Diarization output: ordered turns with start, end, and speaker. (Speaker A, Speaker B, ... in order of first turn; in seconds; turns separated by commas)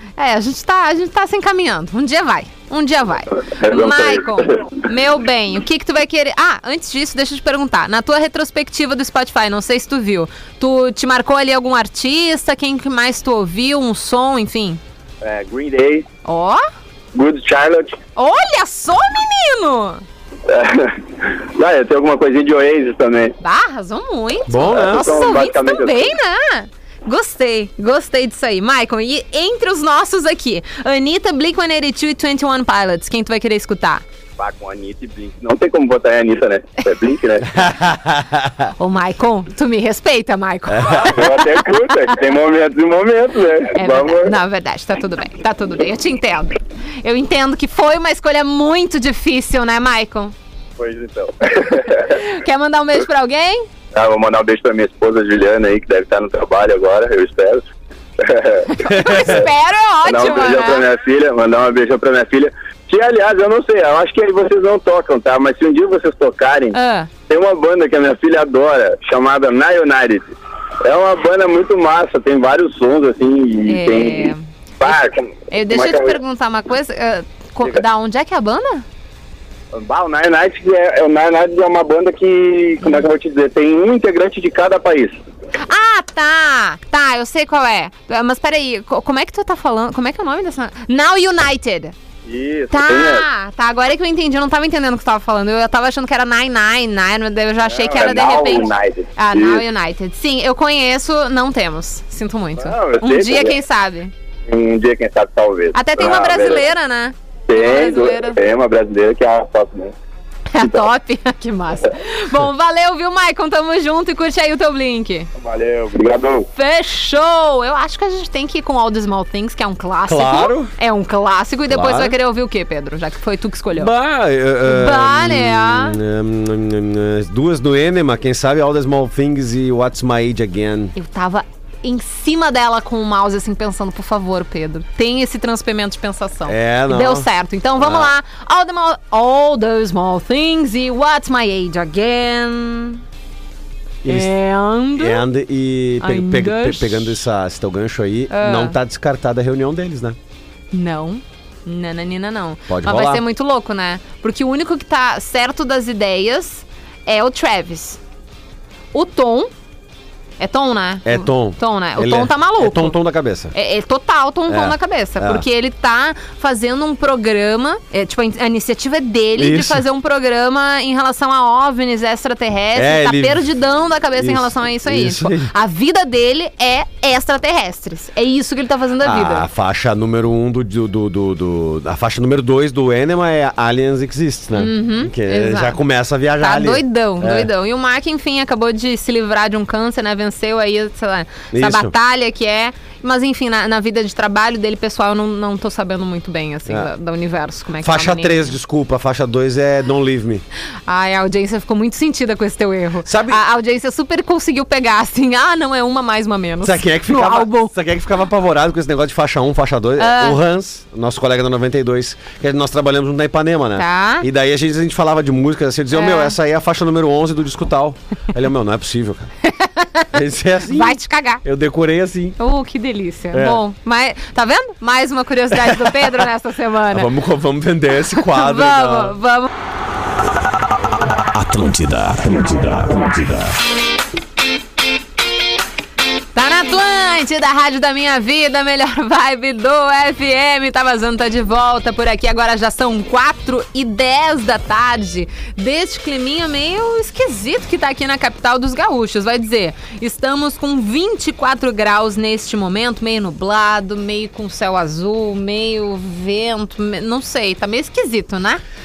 Speaker A: 0.2-14.8, Speaker B: 3.4-4.7, Speaker B: 15.2-16.1, Speaker A: 16.2-16.6, Speaker B: 17.1-18.0, Speaker A: 18.1-20.0, Speaker B: 20.5-23.4, Speaker A: 23.4-34.0, Speaker C: 24.5-25.2, Speaker B: 24.6-26.1, Speaker B: 34.4-37.6, Speaker C: 37.5-38.7, Speaker A: 38.8-42.1, Speaker B: 40.8-44.3, Speaker A: 43.7-50.3, Speaker B: 50.8-52.2, Speaker A: 51.9-53.6, Speaker B: 53.9-57.6, Speaker B: 58.2-59.4, Speaker A: 58.7-60.9, Speaker C: 58.9-59.4, Speaker B: 60.0-66.8, Speaker A: 66.7-67.1, Speaker B: 67.3-76.2, Speaker A: 73.7-74.4, Speaker A: 75.5-78.8, Speaker B: 79.7-85.2, Speaker A: 85.6-91.9, Speaker B: 92.2-93.2, Speaker A: 92.7-104.1, Speaker B: 97.7-99.6, Speaker B: 102.6-103.5, Speaker B: 104.5-106.7, Speaker A: 105.7-108.4, Speaker B: 107.5-109.9, Speaker A: 110.5-115.3, Speaker B: 115.4-116.5, Speaker A: 116.5-123.9, Speaker C: 120.0-120.7, Speaker C: 121.7-122.2, Speaker C: 123.7-130.9, Speaker A: 124.6-126.0, Speaker A: 130.9-143.0, Speaker C: 136.4-138.1, Speaker C: 144.0-144.3, Speaker A: 144.1-145.2, Speaker C: 144.9-150.2, Speaker A: 146.0-147.2, Speaker A: 148.3-148.7, Speaker A: 150.7-158.0, Speaker C: 152.7-153.2, Speaker A: 158.9-159.5, Speaker A: 160.4-163.0, Speaker C: 161.0-163.5, Speaker A: 163.5-179.4, Speaker C: 164.5-165.4, Speaker C: 169.4-169.8, Speaker C: 172.7-173.5, Speaker C: 174.2-175.5, Speaker C: 179.0-187.5, Speaker A: 184.5-185.8, Speaker A: 186.4-198.5, Speaker C: 191.5-191.9, Speaker C: 197.8-200.4, Speaker A: 200.9-207.7, Speaker C: 203.0-203.4, Speaker C: 206.6-219.3, Speaker A: 210.0-210.4, Speaker A: 213.8-214.2, Speaker A: 215.9-216.3, Speaker A: 219.4-220.1, Speaker C: 220.1-222.4, Speaker A: 220.6-221.4, Speaker A: 222.4-227.1, Speaker C: 223.3-223.6, Speaker C: 225.5-226.2, Speaker C: 226.9-229.2, Speaker A: 228.1-229.5, Speaker D: 231.3-233.6, Speaker A: 236.3-258.6